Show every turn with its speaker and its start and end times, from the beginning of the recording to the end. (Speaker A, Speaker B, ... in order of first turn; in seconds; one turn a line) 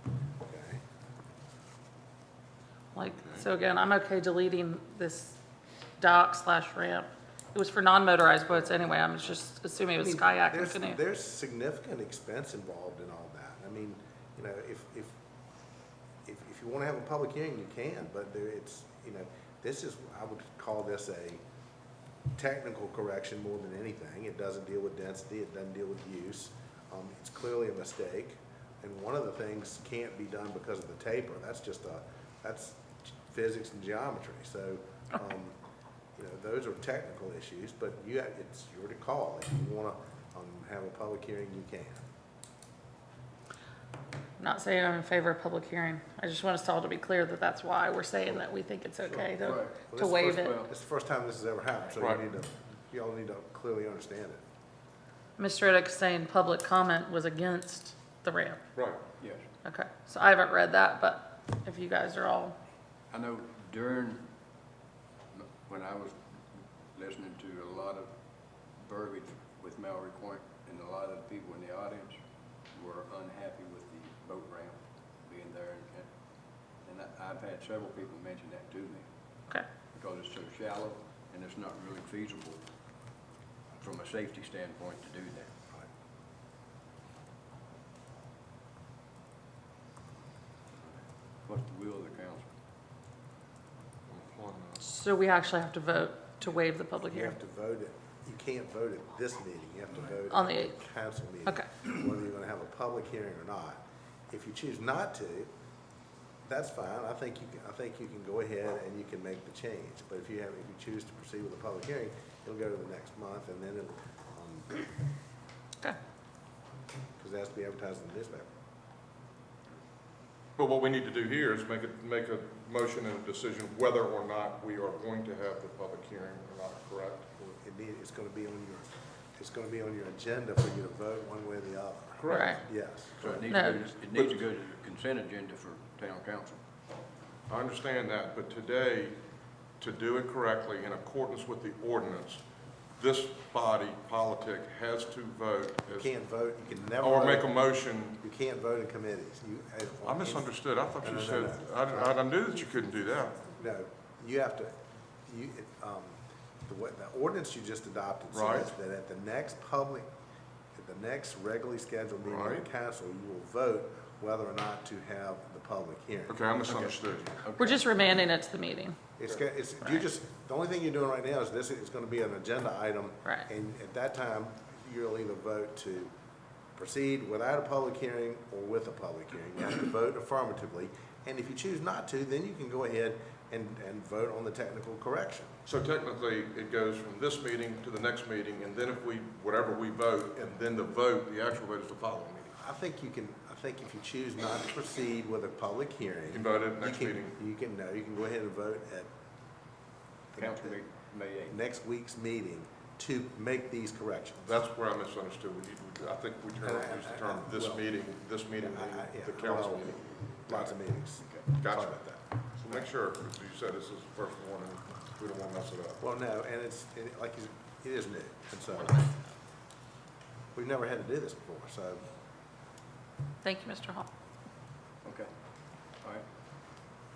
Speaker A: 0.4-0.8
Speaker B: 2.9-5.4
Speaker C: 3.1-3.5
Speaker B: 6.0-11.0
Speaker A: 10.0-15.1
Speaker A: 16.2-21.4
Speaker A: 22.4-35.6
Speaker A: 36.2-42.0
Speaker B: 44.4-50.6
Speaker A: 48.2-54.4
Speaker D: 49.5-49.8
Speaker D: 50.4-50.7
Speaker C: 52.0-52.2
Speaker B: 55.4-58.6
Speaker C: 58.8-59.0
Speaker D: 59.2-59.5
Speaker B: 59.6-62.6
Speaker D: 63.1-64.2
Speaker D: 65.3-66.3
Speaker D: 66.9-68.1
Speaker D: 68.8-72.2
Speaker D: 72.7-76.1
Speaker D: 76.8-79.0
Speaker D: 79.9-82.6
Speaker D: 83.8-85.5
Speaker D: 91.5-92.5
Speaker C: 94.1-94.8
Speaker B: 94.8-97.4
Speaker A: 97.1-103.8
Speaker B: 100.3-100.8
Speaker A: 104.3-105.5
Speaker A: 106.5-114.8
Speaker A: 117.2-118.5
Speaker C: 120.6-127.3
Speaker A: 127.4-133.4
Speaker C: 132.2-132.6
Speaker B: 132.3-132.7
Speaker D: 133.3-136.6
Speaker B: 133.5-133.8
Speaker C: 134.1-134.5
Speaker C: 137.5-139.2
Speaker C: 139.8-142.4
Speaker C: 143.0-146.1
Speaker A: 145.9-147.5
Speaker C: 147.0-148.2
Speaker A: 148.2-150.5
Speaker C: 150.0-153.5
Speaker A: 151.0-152.2
Speaker A: 153.6-160.1
Speaker C: 158.3-158.7
Speaker A: 160.8-166.4
Speaker C: 162.3-162.7
Speaker C: 166.3-167.4
Speaker B: 167.6-169.0
Speaker A: 169.2-176.1
Speaker A: 176.8-185.5
Speaker C: 185.7-192.6
Speaker A: 192.6-199.1
Speaker C: 196.3-197.4
Speaker A: 200.3-200.8
Speaker D: 200.4-201.6
Speaker A: 201.5-204.4
Speaker C: 204.4-210.8
Speaker A: 206.6-207.8
Speaker A: 208.6-212.2
Speaker D: 211.2-211.5
Speaker C: 211.5-212.0
Speaker C: 212.6-216.0
Speaker A: 216.0-219.3
Speaker A: 220.5-222.0
Speaker B: 223.4-224.1
Speaker D: 225.1-225.3